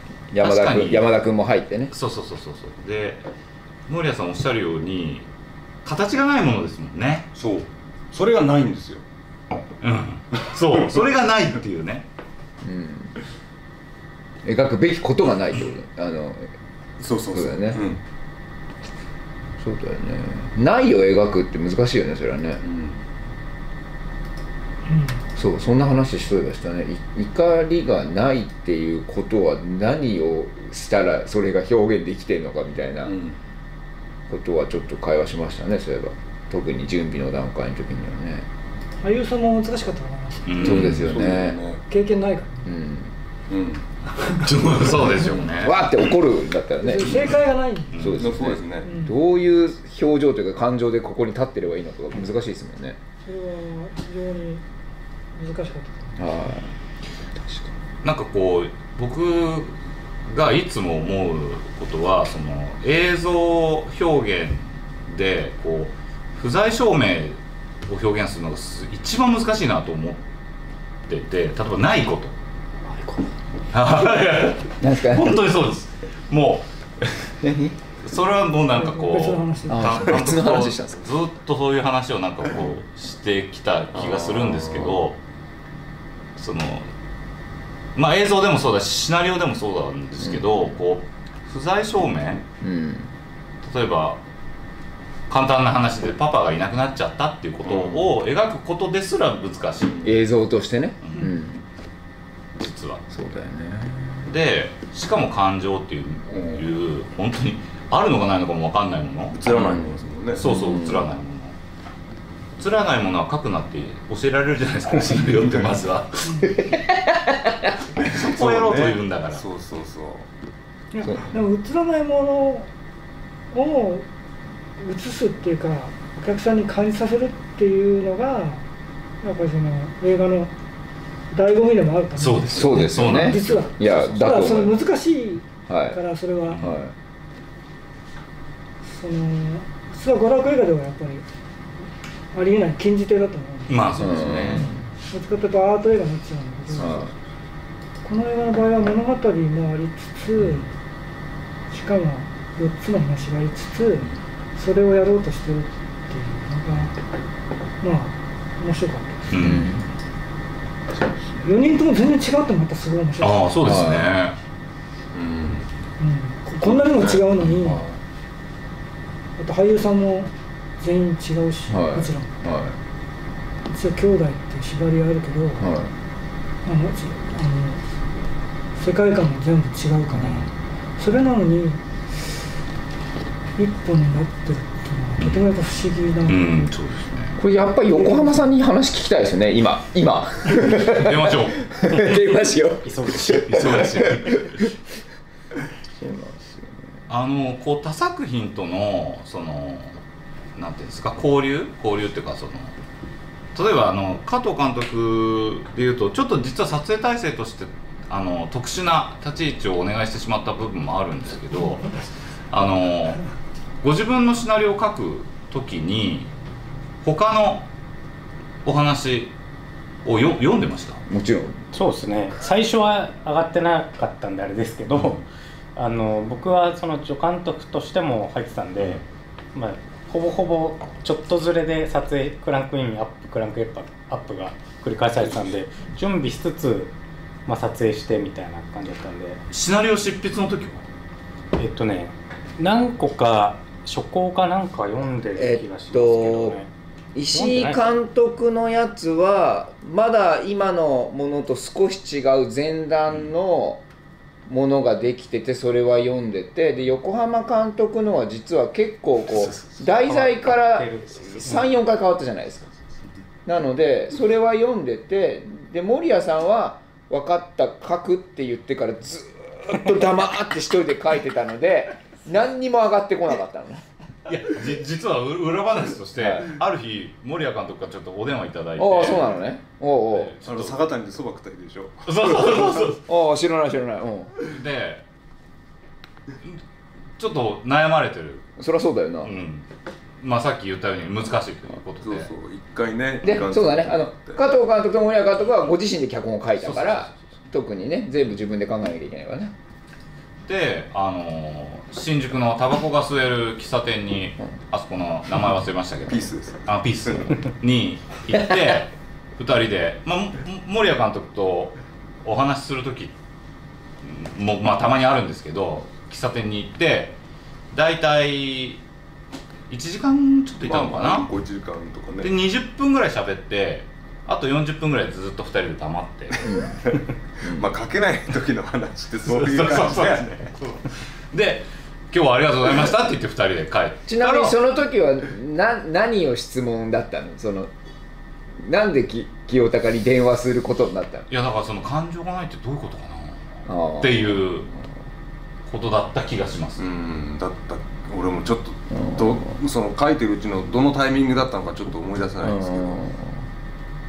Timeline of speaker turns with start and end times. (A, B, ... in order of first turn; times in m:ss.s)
0:00.3-0:01.9 A
0:00.4-0:01.1 B
0:01.9-0:03.2 B
0:03.9-0:05.3 B
0:05.8-0:07.3 B
0:07.3-0:09.0 C
0:09.8-0:12.1 B
0:12.6-0:13.1 A
0:14.4-0:16.5 A
0:17.0-0:18.0 C
0:17.3-0:17.8 A
0:19.6-0:22.6 A
0:22.6-0:23.0 C
0:24.8-0:25.2 D
0:25.4-0:33.2 A
0:33.0-0:33.4 C
0:34.3-0:38.5 A
0:39.0-0:40.8 D
0:40.5-0:41.3 B
0:40.6-0:41.6 A
0:40.7-0:41.8 C
0:41.9-0:42.7 D
0:42.6-0:43.1 A
0:43.5-0:43.8 C
0:44.3-0:45.9 B
0:44.4-0:45.3 C
0:45.5-0:47.3 A
0:46.8-0:48.2 D
0:47.9-0:48.4 B
0:48.0-0:53.0 A
0:48.2-0:48.9 C
0:48.8-0:49.2 D
0:53.2-0:54.6 D
0:55.3-0:56.2 D
0:56.2-0:56.7 A
0:57.3-0:57.7 A
0:58.0-0:59.7 B
1:00.3-1:10.2 B
1:11.1-1:12.3 B
1:12.9-1:13.2 D
1:13.7-1:17.3 B
1:14.8-1:15.4 A
1:17.4-1:17.8 A
1:18.0-1:25.2 B
1:18.7-1:20.0 D
1:19.7-1:21.0 A
1:23.9-1:25.0 C
1:26.4-1:26.9 B
1:27.9-1:32.4 B
1:30.2-1:30.6 A
1:32.6-1:33.1 A
1:33.6-1:34.2 B
1:35.3-1:40.1 B
1:37.6-1:38.1 C
1:40.0-1:41.6 A
1:41.0-1:41.3 B
1:42.6-1:43.0 B
1:43.1-1:44.3 A
1:44.2-1:49.4 B
1:49.3-1:50.4 C
1:49.5-1:51.1 A
1:50.3-1:51.6 B
1:52.6-1:56.7 B
1:56.2-1:56.5 D
1:56.7-1:57.7 A
1:58.0-1:59.4 B
1:58.1-2:00.3 C
2:00.9-2:02.7 D
2:03.5-2:04.0 D
2:04.8-2:08.6 D
2:09.2-2:10.5 D
2:11.3-2:16.6 D
2:12.2-2:13.9 B
2:12.5-2:14.8 A
2:15.7-2:16.0 A
2:16.5-2:16.8 B
2:16.6-2:16.9 A
2:18.8-2:21.2 D
2:22.3-2:27.0 D
2:23.7-2:24.7 B
2:24.0-2:24.8 A
2:26.7-2:27.1 A
2:28.0-2:30.7 D
2:30.4-2:30.7 B
2:31.7-2:36.9 D
2:37.8-2:39.4 D
2:39.3-2:39.7 B
2:39.4-2:39.8 A
2:41.4-2:43.5 D
2:43.2-2:44.4 B
2:43.6-2:44.1 A
2:45.1-2:45.7 C
2:46.0-2:47.8 D
2:46.6-2:47.2 C
2:49.4-2:52.3 D
2:51.7-2:52.7 A
2:53.7-2:55.7 D
2:55.6-2:55.9 A
2:56.6-2:57.8 D
2:58.8-3:00.4 D
3:00.1-3:00.5 B
3:01.0-3:01.8 D
3:03.6-3:06.5 D
3:05.2-3:05.4 B
3:06.2-3:07.4 B
3:07.4-3:14.7 A
3:07.9-3:08.4 D
3:10.7-3:11.7 B
3:11.9-3:12.2 E
3:12.8-3:13.6 E
3:13.4-3:14.6 B
3:16.0-3:16.8 A
3:17.1-3:19.9 B
3:20.6-3:22.7 B
3:23.5-3:32.0 B
3:32.5-3:33.2 B
3:33.8-3:36.3 B
3:37.0-3:37.7 B
3:38.6-3:39.3 B
3:40.0-3:41.0 B
3:41.1-3:41.6 A
3:41.7-3:45.2 E
3:44.9-3:45.2 B
3:45.8-3:49.0 E
3:49.5-3:56.9 E
3:57.4-3:59.4 E
3:59.5-4:00.8 B
4:01.6-4:06.7 E
4:05.4-4:06.6 A
4:07.1-4:13.8 A
4:07.3-4:07.9 E
4:14.5-4:22.7 A
4:19.8-4:21.7 E
4:23.4-4:33.8 A
4:34.3-4:39.4 B
4:36.2-4:36.5 A
4:38.8-4:40.3 A
4:40.1-4:40.8 B
4:40.4-4:42.8 C
4:42.0-4:43.0 B
4:43.0-4:44.3 A
4:44.4-4:45.0 B
4:47.2-4:48.5 B
4:48.6-4:49.3 A
4:49.2-4:49.6 B
4:50.2-4:52.3 B
4:52.0-4:54.4 C
4:53.2-4:59.5 A
4:56.6-4:57.2 B
5:00.4-5:13.1 B
5:06.1-5:07.1 C
5:14.0-5:17.2 B
5:17.7-5:18.8 B
5:19.7-5:21.3 B
5:20.6-5:22.3 C
5:22.2-5:26.5 B
5:26.4-5:26.8 A
5:26.8-5:30.3 C
5:27.4-5:27.7 A
5:29.2-5:34.6 B
5:34.1-5:37.7 A
5:38.6-5:41.3 A
5:41.3-5:44.7 B
5:43.7-5:44.6 A
5:45.6-5:46.9 B
5:46.8-5:53.0 C
5:48.9-5:49.5 A
5:52.4-5:53.3 A